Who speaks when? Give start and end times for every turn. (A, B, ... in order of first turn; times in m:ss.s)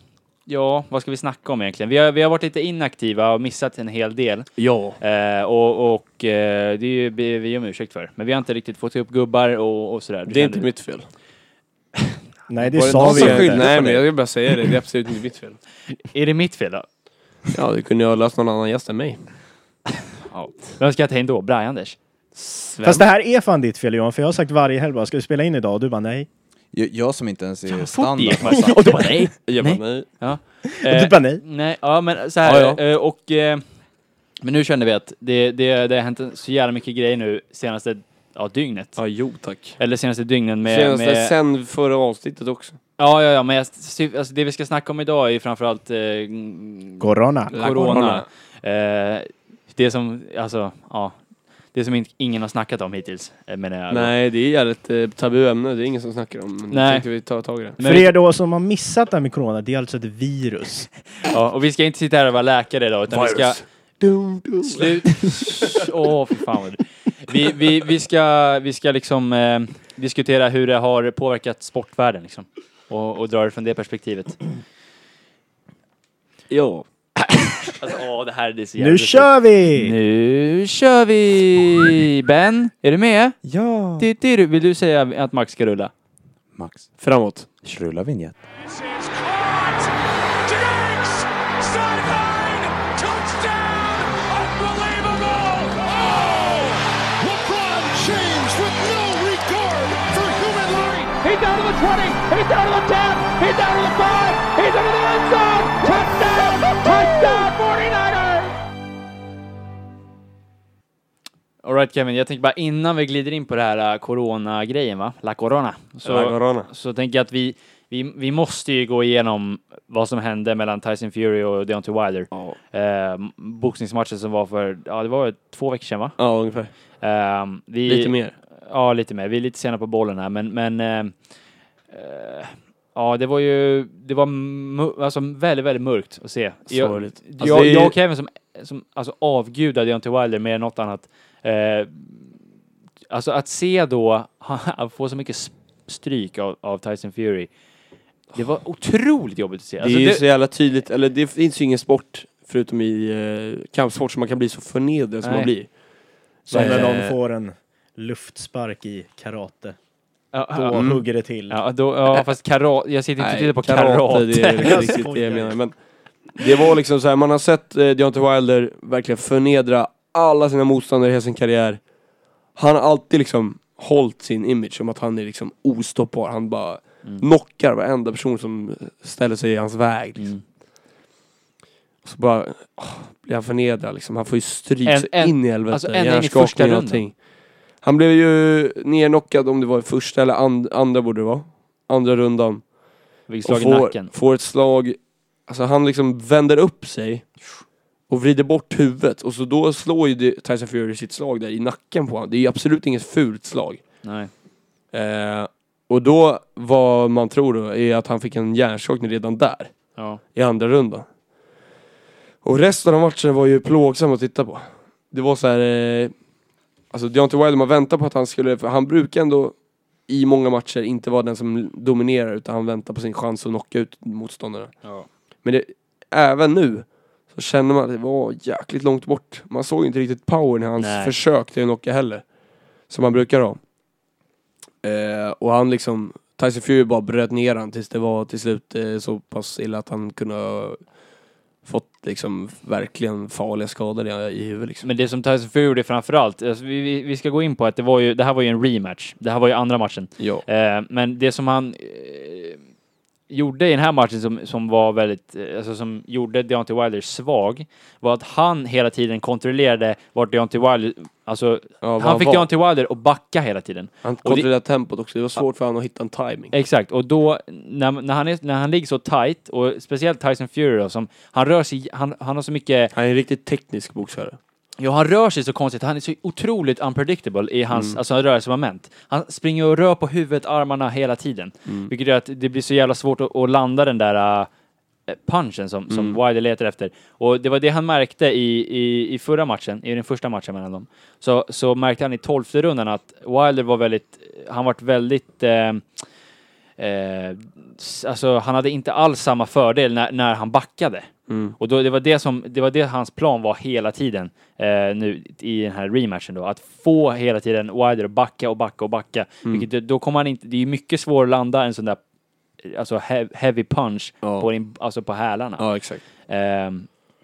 0:00.5-0:04.5 A
0:04.6-0:05.0 B
0:05.0-0:10.7 A
0:10.3-0:11.1 B
0:12.5-0:13.7 C
0:12.7-0:14.1 D
0:12.8-0:15.6 B
0:16.0-0:16.9 A
0:17.5-0:19.2 B
0:20.3-0:22.0 A
0:22.4-0:23.0 B
0:22.8-0:26.3 C
0:26.7-0:29.0 D
0:27.7-0:33.6 A
0:28.4-0:29.3 C
0:29.5-0:30.1 B
0:30.8-0:31.4 C
0:32.4-0:32.8 B
0:34.4-0:39.0 A
0:39.0-0:39.8 B
0:39.8-0:41.4 A
0:40.6-0:42.8 B
0:43.0-0:51.2 A
0:47.0-0:47.5 C
0:47.5-0:48.3 B
0:51.7-0:54.1 A
0:53.9-0:57.8 B
0:56.7-0:57.1 A
0:57.8-0:58.1 A
0:57.8-1:00.9 C
1:01.2-1:03.6 A
1:03.1-1:05.6 B
1:04.6-1:14.4 A
1:16.5-1:16.8 B
1:17.7-1:23.4 A
1:18.8-1:20.0 C
1:23.4-1:24.1 D
1:24.0-1:25.9 A
1:26.5-1:26.9 D
1:27.0-1:27.5 B
1:27.6-1:28.4 D
1:28.7-1:29.9 E
1:30.4-1:48.5 E
1:46.8-1:47.5 A
1:51.6-2:06.2 A
1:56.0-1:56.7 B
2:02.3-2:02.6 B
2:06.2-2:06.7 B
2:07.0-2:11.1 A
2:07.9-2:08.4 B
2:11.9-2:22.3 A
2:16.7-2:18.0 B
2:23.1-2:27.5 A
2:28.3-2:30.2 A
2:29.8-2:35.8 B
2:35.2-2:35.5 A
2:36.4-2:37.2 B
2:36.5-2:37.1 A
2:36.5-2:39.8 C
2:40.3-2:40.9 A
2:40.5-2:41.6 C
2:40.7-2:41.0 B
2:41.5-2:45.0 A
2:43.2-2:51.8 B
2:44.5-2:45.6 C
2:52.6-3:00.3 B
3:00.2-3:00.4 A
3:02.0-3:07.2 B
3:04.8-3:07.0 A
3:07.8-3:12.7 B
3:13.3-3:14.1 A
3:13.4-3:17.3 B
3:18.1-3:23.8 B
3:24.0-3:24.3 A
3:24.9-3:29.8 B
3:30.0-3:30.2 A
3:30.3-3:31.1 B
3:32.4-3:36.1 B
3:36.9-3:44.8 B
3:45.4-3:52.3 B
3:50.8-3:51.1 A
3:52.9-3:53.6 B
3:54.8-4:00.9 B
4:01.6-4:04.9 B
4:04.8-4:12.6 A
4:10.2-4:10.4 B
4:13.3-4:24.5 A
4:21.8-4:22.5 B
4:24.0-4:26.5 B
4:26.5-4:32.9 A
4:32.9-4:34.4 B
4:34.8-4:44.5 A
4:37.7-4:38.0 B
4:45.1-4:55.8 A
4:45.9-4:46.2 B
4:56.8-5:12.0 A
5:01.3-5:01.6 B
5:12.6-5:15.7 A
5:14.2-5:14.5 B
5:15.6-5:16.0 B
5:16.2-5:16.9 A